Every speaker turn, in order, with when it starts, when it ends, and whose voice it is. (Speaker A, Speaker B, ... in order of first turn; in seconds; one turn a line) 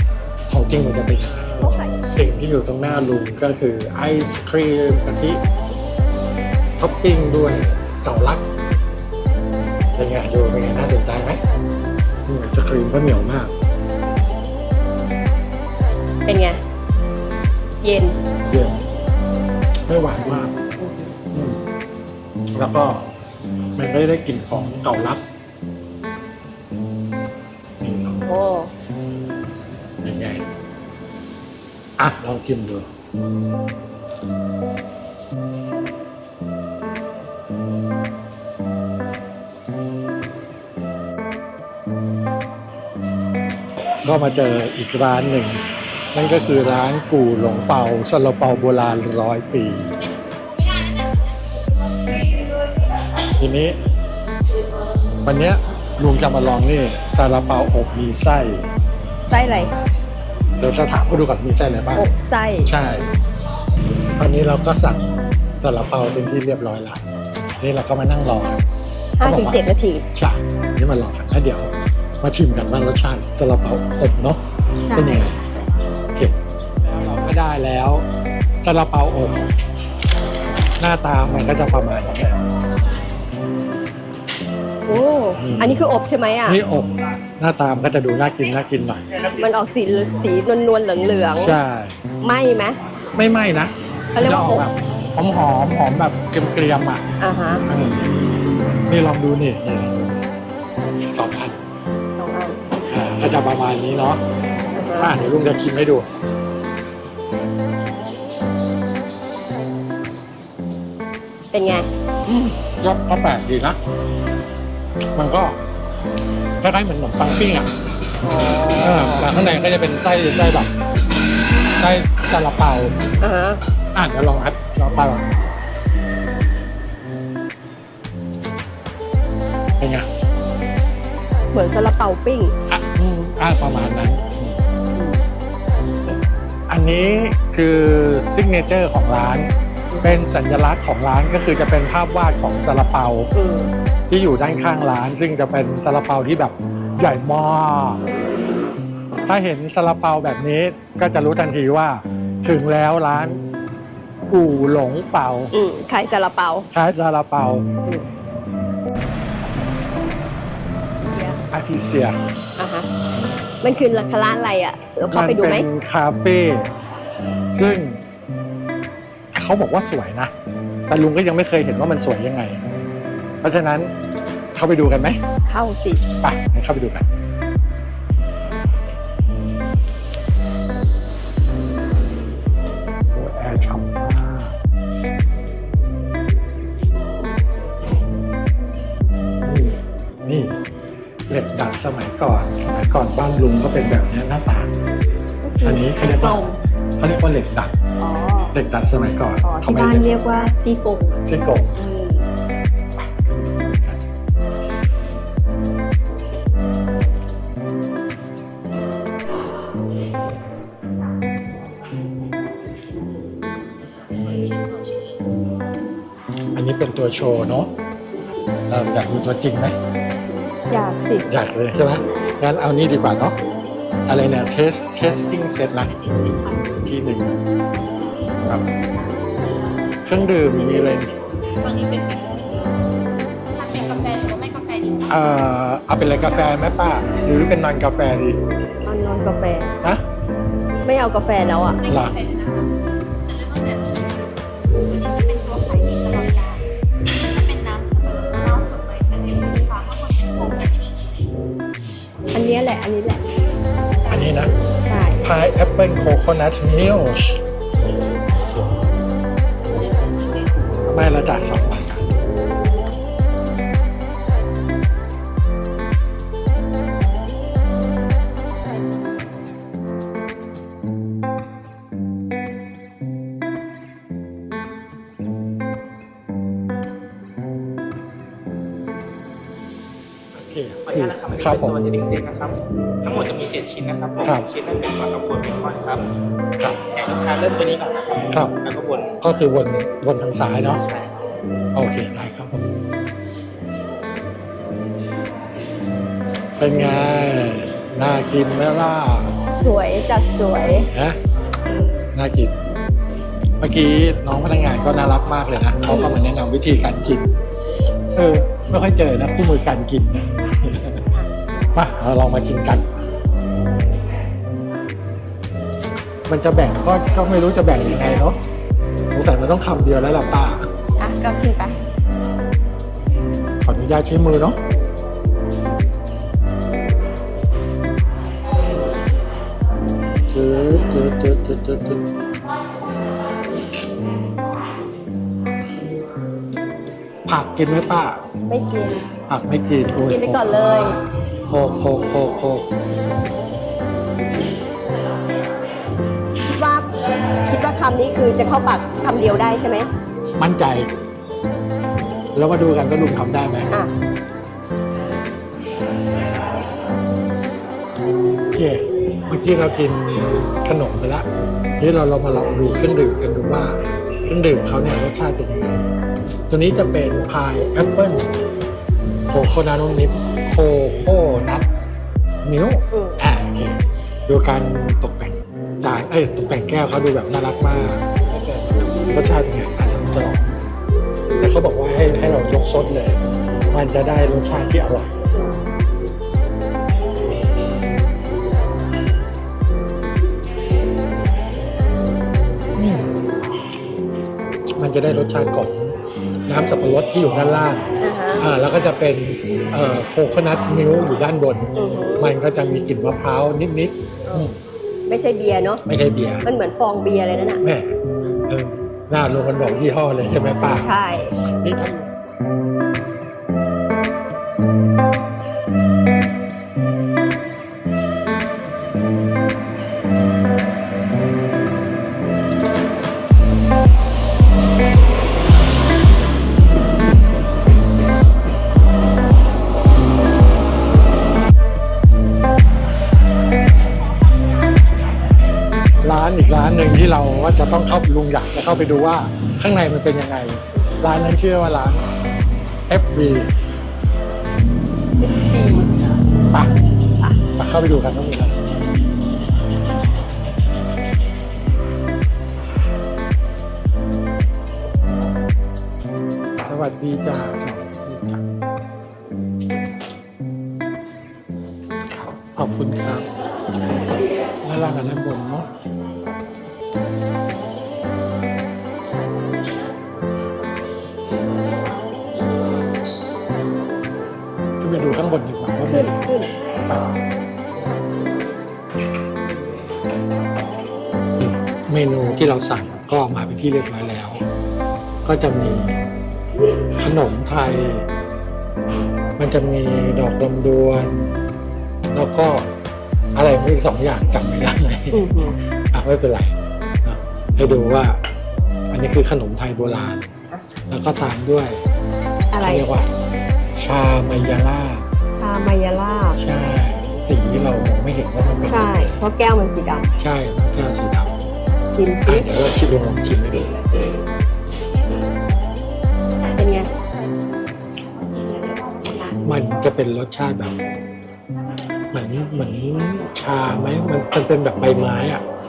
Speaker A: 0.5-5.4
Speaker B: 1.6-2.0
Speaker A: 6.8-8.4
Speaker A: 10.0-11.4
Speaker A: 12.3-13.5
Speaker B: 16.3-16.6
Speaker B: 17.8-18.2
Speaker A: 18.5-18.8
Speaker A: 19.9-20.6
Speaker B: 20.8-21.1
Speaker A: 21.3-21.6
Speaker A: 22.6-23.1
Speaker A: 23.8-25.2
Speaker A: 27.8-28.3
Speaker B: 28.3-28.7
Speaker A: 30.0-30.5
Speaker A: 32.0-32.9
Speaker A: 44.0-45.6
Speaker A: 46.1-49.9
Speaker A: 53.4-53.8
Speaker A: 55.2-58.6
Speaker B: 59.3-59.7
Speaker A: 60.6-62.1
Speaker B: 62.0-62.7
Speaker A: 62.7-63.1
Speaker A: 64.2-65.0
Speaker A: 65.5-67.0
Speaker A: 67.6-68.6
Speaker B: 69.2-70.0
Speaker A: 69.2-74.4
Speaker B: 74.8-75.3
Speaker A: 74.9-75.4
Speaker A: 76.2-78.0
Speaker A: 78.6-79.5
Speaker A: 80.8-82.4
Speaker B: 84.9-86.6
Speaker A: 85.4-85.8
Speaker A: 86.5-89.1
Speaker B: 89.4-91.5
Speaker A: 91.4-92.0
Speaker B: 92.2-92.8
Speaker A: 93.2-97.1
Speaker B: 94.1-94.7
Speaker B: 97.2-97.7
Speaker A: 97.7-98.1
Speaker A: 98.9-100.2
Speaker A: 101.1-101.6
Speaker B: 102.2-102.6
Speaker A: 102.9-104.2
Speaker B: 104.8-105.2
Speaker A: 105.0-106.1
Speaker B: 111.5-112.5
Speaker A: 112.8-113.8
Speaker A: 115.2-115.6
Speaker A: 116.6-117.7
Speaker B: 118.2-119.3
Speaker A: 118.8-120.7
Speaker A: 121.8-123.0
Speaker B: 123.2-123.6
Speaker A: 124.0-125.3
Speaker A: 129.8-130.1
Speaker B: 131.5-132.5
Speaker A: 132.7-134.6
Speaker B: 134.9-135.2
Speaker A: 136.7-139.5
Speaker A: 140.0-143.3
Speaker B: 143.3-143.7
Speaker A: 144.1-148.0
Speaker A: 149.3-153.4
Speaker A: 154.3-155.5
Speaker B: 155.5-156.7
Speaker A: 156.7-157.7
Speaker B: 161.1-161.4
Speaker A: 161.5-162.2
Speaker B: 162.6-162.9
Speaker B: 163.6-165.7
Speaker A: 165.1-166.7
Speaker A: 167.5-168.0
Speaker A: 169.3-170.3
Speaker A: 170.9-172.6
Speaker A: 173.4-173.9
Speaker A: 174.6-175.2
Speaker B: 175.5-176.0
Speaker A: 176.2-177.1
Speaker A: 183.1-184.5
Speaker A: 189.4-190.6
Speaker A: 191.3-194.7
Speaker B: 195.4-196.6
Speaker A: 195.6-196.5
Speaker A: 197.0-197.8
Speaker B: 198.0-198.5
Speaker A: 198.5-200.1
Speaker B: 199.4-201.2
Speaker A: 201.3-201.8
Speaker B: 201.8-202.2
Speaker A: 203.5-203.9
Speaker A: 216.6-217.7
Speaker A: 218.7-219.8
Speaker B: 220.7-221.3
Speaker A: 221.3-223.4
Speaker A: 224.1-227.4
Speaker C: 225.9-226.6
Speaker A: 230.1-231.1
Speaker C: 231.5-232.6
Speaker C: 233.6-235.1
Speaker A: 235.1-238.4
Speaker B: 238.8-239.8
Speaker B: 240.8-241.8
Speaker A: 241.8-242.2
Speaker C: 242.0-242.7
Speaker C: 243.3-246.6
Speaker C: 247.2-251.0
Speaker B: 252.3-253.2
Speaker A: 254.1-254.5
Speaker B: 254.9-255.2
Speaker A: 255.2-257.4
Speaker C: 260.0-260.6
Speaker A: 260.9-262.1
Speaker A: 280.3-281.8
Speaker D: 280.9-286.1
Speaker A: 286.6-286.8
Speaker D: 286.9-289.2
Speaker A: 288.3-288.6
Speaker A: 289.2-290.8
Speaker A: 291.7-292.6
Speaker A: 296.6-299.4
Speaker B: 299.6-300.9
Speaker A: 300.9-301.2
Speaker A: 302.1-302.6
Speaker A: 303.6-307.4
Speaker B: 305.9-306.2
Speaker A: 308.1-311.0
Speaker A: 311.8-312.9
Speaker A: 316.3-318.4
Speaker A: 319.1-320.7
Speaker B: 321.0-321.7
Speaker A: 323.6-324.6
Speaker A: 330.3-332.0
Speaker A: 337.3-338.2
Speaker B: 338.5-339.0
Speaker A: 339.3-340.9
Speaker B: 340.1-341.0
Speaker A: 341.5-342.7
Speaker B: 346.5-346.9
Speaker B: 347.5-349.9
Speaker A: 350.4-350.9
Speaker A: 352.4-353.7
Speaker A: 358.5-361.3
Speaker A: 361.8-365.9
Speaker A: 366.5-368.3
Speaker A: 369.3-371.7
Speaker A: 372.4-380.7
Speaker B: 372.9-373.2
Speaker A: 381.4-385.1
Speaker A: 392.8-393.1
Speaker A: 394.8-397.9
Speaker B: 398.0-398.5
Speaker A: 398.4-404.6
Speaker B: 401.8-402.4
Speaker B: 405.1-405.8
Speaker A: 405.9-406.5
Speaker B: 406.4-407.6
Speaker A: 407.6-408.0
Speaker A: 408.5-410.9
Speaker B: 410.6-411.4
Speaker A: 411.6-412.1
Speaker A: 436.0-442.0
Speaker A: 442.9-443.5
Speaker B: 445.2-446.2
Speaker A: 447.6-448.6
Speaker A: 456.6-458.4
Speaker A: 462.1-463.3
Speaker A: 464.6-465.7
Speaker A: 474.8-477.1
Speaker B: 475.9-476.5
Speaker A: 481.4-484.4
Speaker A: 485.3-486.0
Speaker A: 487.0-488.1
Speaker A: 489.4-491.3
Speaker A: 492.1-492.7
Speaker A: 493.4-498.2
Speaker B: 495.1-495.6
Speaker A: 498.9-500.3
Speaker A: 500.9-501.8
Speaker B: 502.5-502.9
Speaker A: 502.6-503.1
Speaker A: 503.8-505.1
Speaker B: 505.4-506.4
Speaker A: 506.4-509.1
Speaker B: 508.7-510.1
Speaker A: 510.2-511.3
Speaker B: 511.8-512.5
Speaker A: 512.3-513.8
Speaker B: 516.6-516.9
Speaker A: 519.4-520.8
Speaker A: 522.1-525.4